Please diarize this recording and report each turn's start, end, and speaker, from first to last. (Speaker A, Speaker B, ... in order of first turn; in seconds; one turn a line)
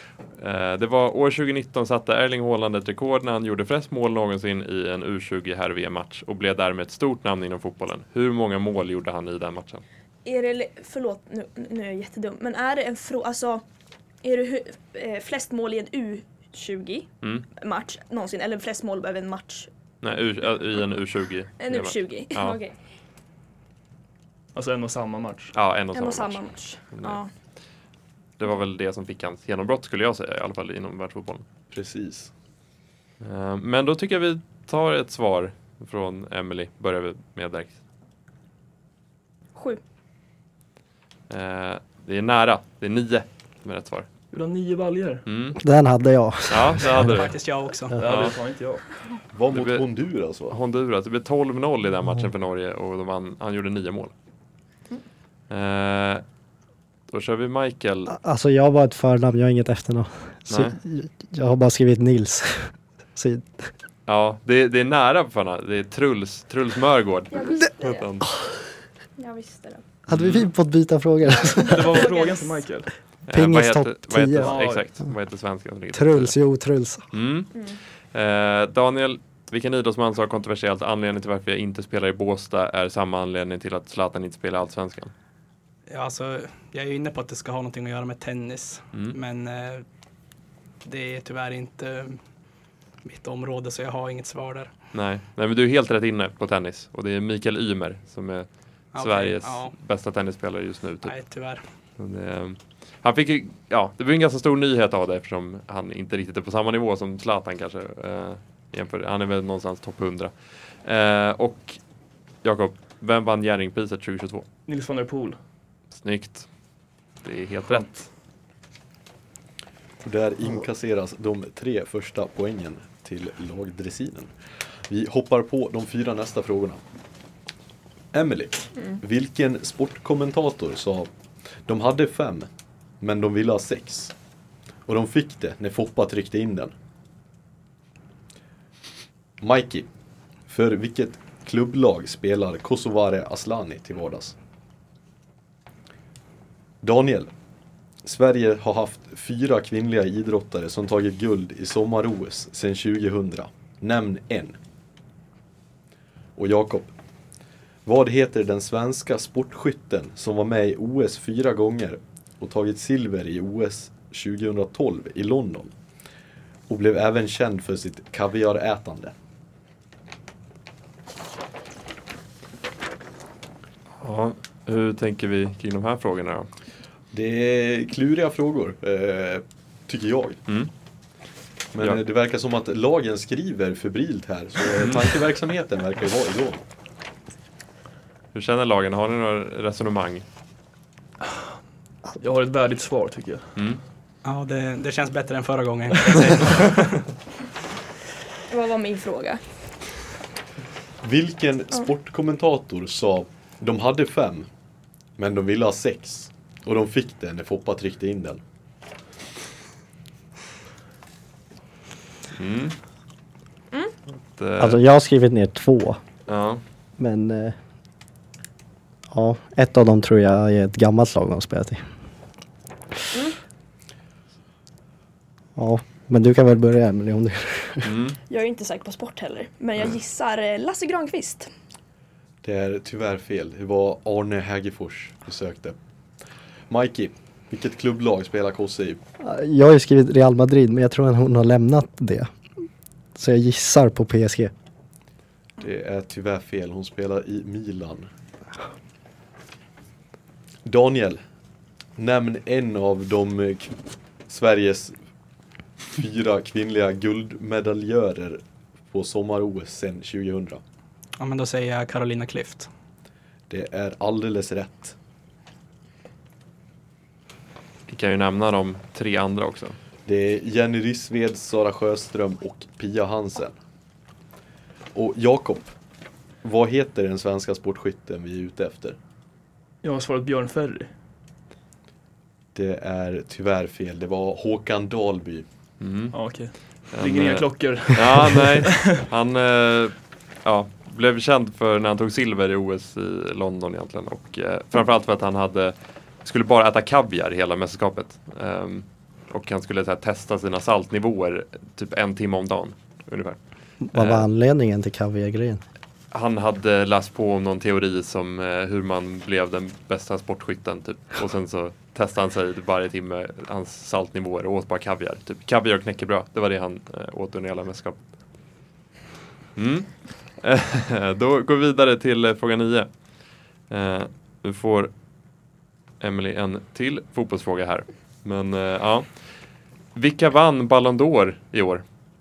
Speaker A: 0.3-9.8
Speaker B: 10.2-13.6
Speaker B: 14.2-19.7
Speaker A: 20.0-22.6
Speaker B: 21.6-22.8
Speaker C: 24.5-25.5
Speaker A: 25.5-27.2
Speaker B: 25.9-27.3
Speaker A: 28.4-31.4
Speaker D: 31.7-32.3
Speaker A: 33.2-37.8
Speaker B: 39.5-39.8
Speaker A: 41.3-44.1
Speaker C: 44.3-45.2
Speaker A: 45.2-45.6
Speaker E: 45.6-47.1
Speaker A: 46.5-47.4
Speaker F: 46.8-48.0
Speaker C: 48.0-48.8
Speaker A: 48.0-48.4
Speaker D: 49.3-50.5
Speaker A: 49.5-49.8
Speaker A: 50.5-54.1
Speaker A: 55.5-56.2
Speaker A: 57.1-58.1
Speaker E: 58.1-63.7
Speaker A: 60.5-60.8
Speaker A: 64.1-68.3
Speaker B: 67.3-68.1
Speaker B: 69.2-69.8
Speaker E: 70.1-72.1
Speaker A: 70.1-70.5
Speaker B: 71.4-72.8
Speaker C: 71.7-72.9
Speaker A: 73.2-76.4
Speaker E: 73.3-75.1
Speaker C: 74.4-74.8
Speaker E: 75.9-77.1
Speaker A: 77.1-85.1
Speaker B: 77.5-77.8
Speaker F: 85.9-89.8
Speaker F: 90.8-92.2
Speaker F: 93.0-94.7
Speaker A: 94.9-101.2
Speaker F: 98.9-99.7
Speaker F: 101.0-101.6
Speaker A: 102.0-111.8
Speaker A: 112.3-114.5
Speaker C: 114.7-115.4
Speaker A: 115.9-116.5
Speaker A: 117.2-118.0
Speaker C: 117.7-118.0
Speaker D: 120.0-124.3
Speaker D: 124.9-126.8
Speaker D: 128.1-131.1
Speaker D: 131.7-132.5
Speaker D: 133.0-134.1
Speaker D: 134.8-136.7
Speaker D: 139.4-139.9
Speaker D: 140.4-144.3
Speaker D: 146.8-147.3
Speaker D: 148.0-154.6
Speaker D: 156.3-156.9
Speaker D: 157.8-165.7
Speaker D: 166.7-169.1
Speaker A: 174.0-176.5
Speaker D: 177.1-180.4
Speaker D: 181.7-186.6
Speaker A: 188.3-190.2
Speaker C: 192.2-193.6
Speaker F: 194.2-197.0
Speaker B: 198.5-199.4
Speaker D: 201.0-204.5
Speaker D: 205.2-208.4
Speaker A: 212.3-212.8
Speaker A: 214.2-214.8
Speaker E: 214.6-216.0
Speaker A: 216.3-216.6
Speaker E: 217.0-217.6
Speaker E: 219.1-221.8
Speaker E: 225.6-227.9
Speaker A: 227.8-228.2
Speaker B: 228.3-231.5
Speaker D: 232.4-235.8
Speaker D: 236.7-239.0
Speaker E: 239.2-242.6
Speaker E: 243.1-244.5
Speaker D: 245.6-248.1
Speaker D: 250.6-251.2
Speaker D: 251.9-253.7
Speaker D: 254.3-254.9
Speaker D: 255.9-260.6
Speaker F: 261.2-262.7
Speaker D: 263.5-264.9
Speaker A: 267.9-269.8
Speaker D: 270.1-273.6
Speaker D: 274.9-275.7
Speaker D: 276.4-279.0
Speaker C: 279.8-280.9
Speaker D: 282.5-285.4
Speaker A: 285.8-303.4
Speaker C: 286.1-288.7
Speaker E: 303.8-305.6
Speaker A: 303.9-304.3
Speaker A: 306.1-318.1
Speaker A: 319.6-324.9
Speaker A: 326.0-331.8